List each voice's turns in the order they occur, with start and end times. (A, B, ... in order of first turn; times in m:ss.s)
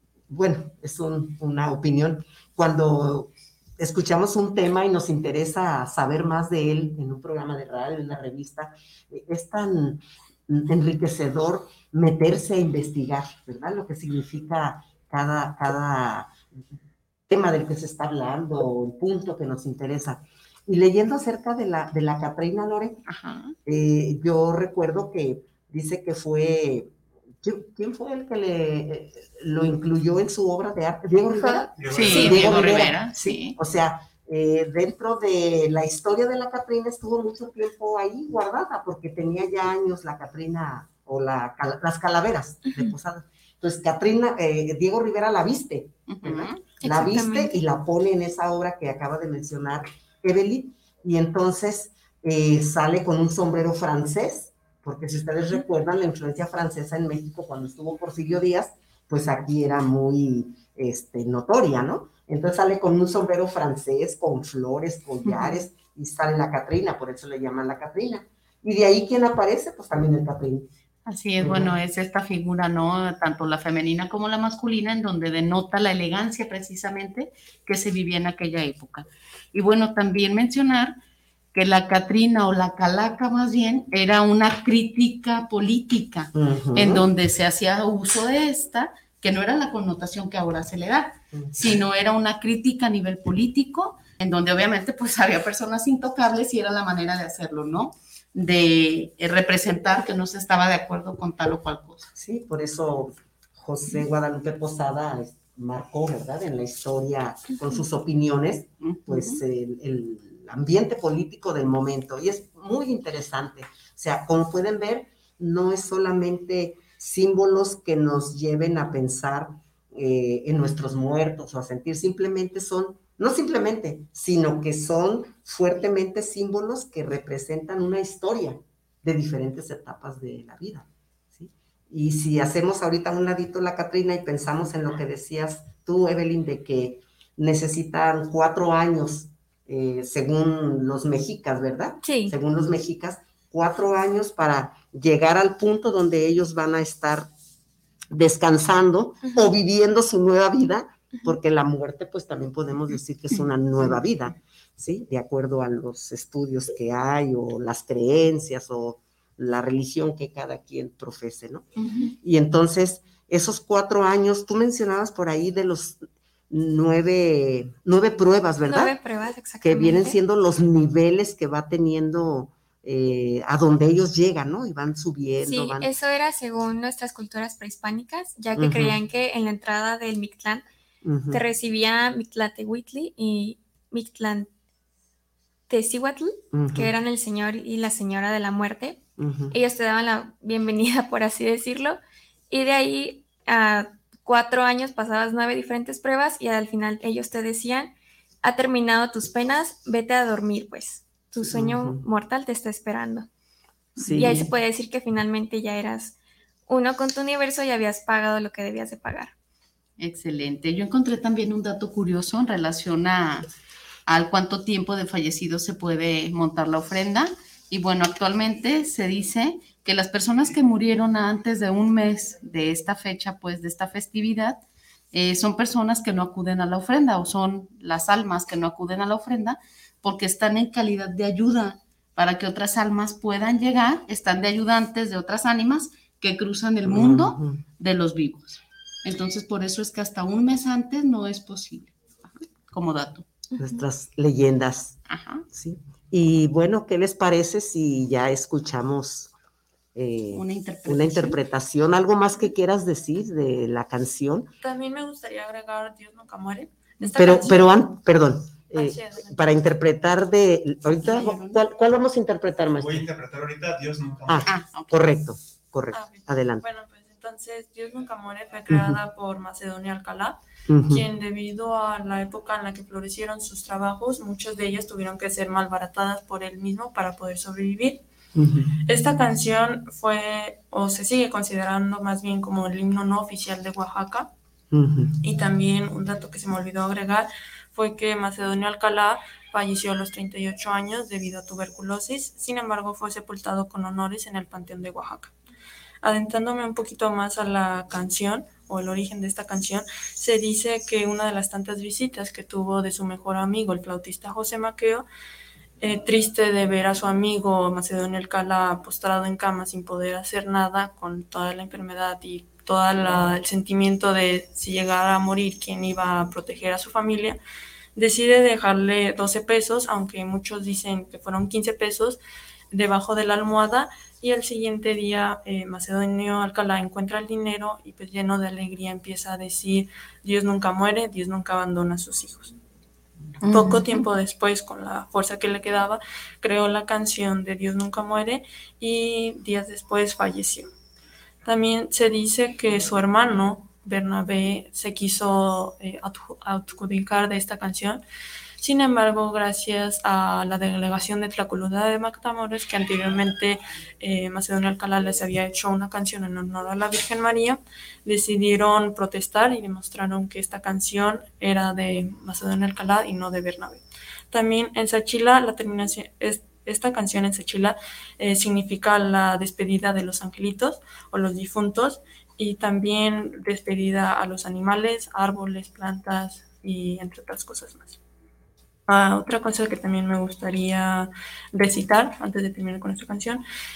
0:00.3-0:16.4 A
0:17.3-0:23.0 A
0:23.0-0:23.5 B
0:23.6-0:26.9 A
0:27.4-1:10.7 A
0:31.3-0:32.3 C
0:31.8-0:32.4 D
0:31.9-0:33.6 B
0:42.6-0:42.9 C
0:46.1-0:46.6 B
0:46.8-0:47.6 C
1:05.2-1:05.7 B
1:11.1-1:21.0 B
1:11.4-1:11.8 A
1:21.5-1:42.1 B
1:26.3-1:27.0 A
1:31.3-1:31.8 A
1:42.2-2:27.3 A
1:48.8-1:49.4 B
2:22.0-2:22.3 C
2:28.1-2:41.7 A
2:29.2-2:29.5 C
2:41.8-2:42.1 B
2:42.2-2:49.0 A
2:48.6-2:50.2 C
2:49.6-2:55.9 A
2:55.4-3:00.6 C
2:58.6-2:59.0 A
3:01.0-3:01.4 A
3:01.3-3:04.5 C
3:05.7-3:09.0 C
3:06.5-3:06.9 A
3:09.2-3:09.5 A
3:09.5-3:12.0 C
3:12.5-3:17.9 C
3:18.4-3:23.2 C
3:21.4-3:22.0 A
3:24.0-3:24.5 A
3:24.1-3:24.3 B
3:24.1-3:26.1 C
3:26.7-3:29.3 C
3:30.0-3:33.5 B
3:34.1-3:44.6 B
3:45.1-4:03.2 B
3:56.8-3:57.6 A
4:03.6-4:05.0 A
4:05.1-4:05.4 B
4:05.5-4:09.3 A
4:09.9-4:14.5 A
4:10.3-4:11.4 B
4:14.6-4:17.7 E
4:17.1-4:23.1 A
4:18.7-4:19.6 E
4:20.9-4:21.6 B
4:22.8-4:24.5 D
4:24.3-4:26.6 A
4:24.4-4:25.2 B
4:25.9-4:38.0 E
4:28.7-4:29.0 A
4:30.7-4:31.1 A
4:38.3-4:38.8 A
4:38.8-4:44.3 E
4:44.7-4:45.2 A
4:45.2-4:55.3 E
4:56.0-5:05.0 E
5:05.8-5:17.4 E
5:18.0-5:22.2 E
5:22.7-5:32.5 E
5:33.4-5:34.0 B
5:33.5-5:40.7 E
5:41.4-5:48.0 E
5:48.6-6:18.0 E
6:18.9-6:23.4 E